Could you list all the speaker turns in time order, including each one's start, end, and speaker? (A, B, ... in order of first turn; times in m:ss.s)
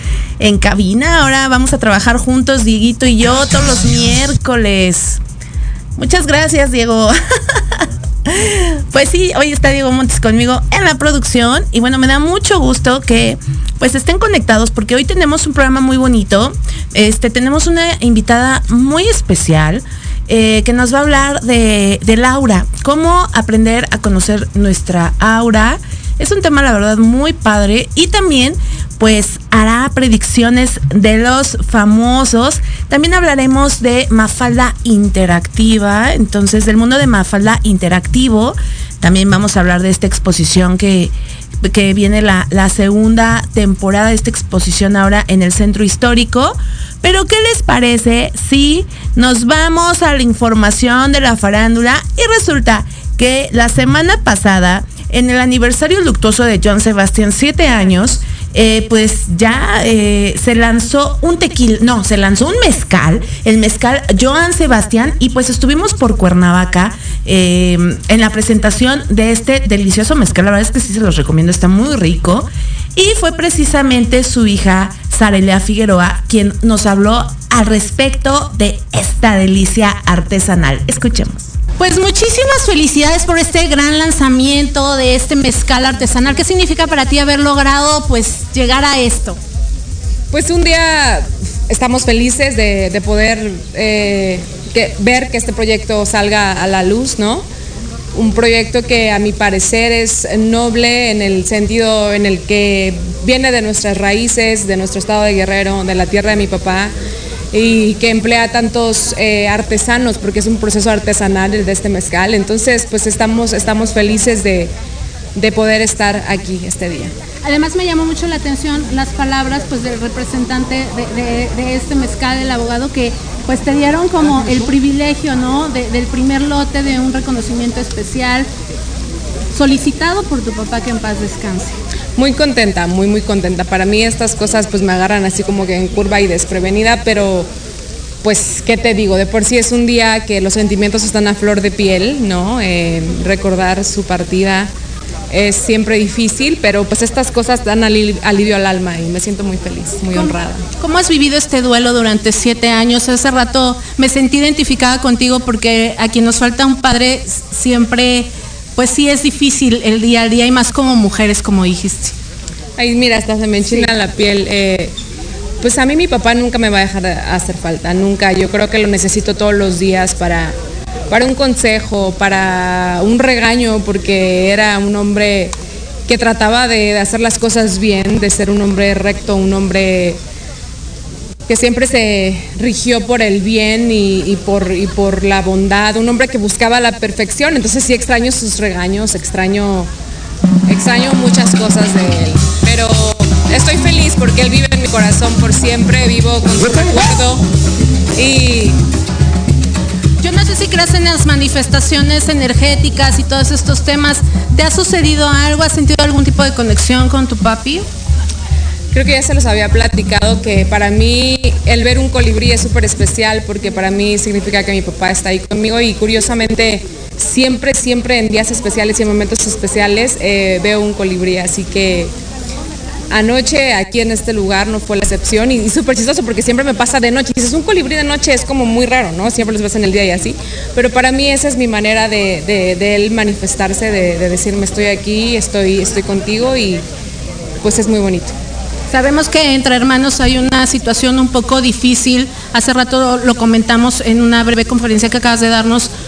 0:00.4-0:05.2 A
0:06.0-1:21.5 A
1:21.8-1:29.4 B
1:30.3-1:37.5 C
1:38.1-1:46.9 C
1:47.5-1:54.7 C
1:55.3-1:57.1 C
1:57.4-2:08.5 B
2:09.5-2:11.8 B
2:12.2-2:17.5 C
2:18.2-2:24.7 C
2:25.3-2:30.6 C
2:30.1-2:42.2 B
2:42.8-2:44.9 C
2:45.6-2:50.6 C
2:51.1-2:55.5 C
2:56.0-3:00.2 C
3:01.5-3:09.9 C
3:10.7-3:17.4 C
3:18.1-3:18.8 C
3:20.2-3:27.9 B
3:28.9-3:42.1 C
3:43.1-3:56.8 C
3:57.6-3:58.4 C
3:58.9-4:05.9 B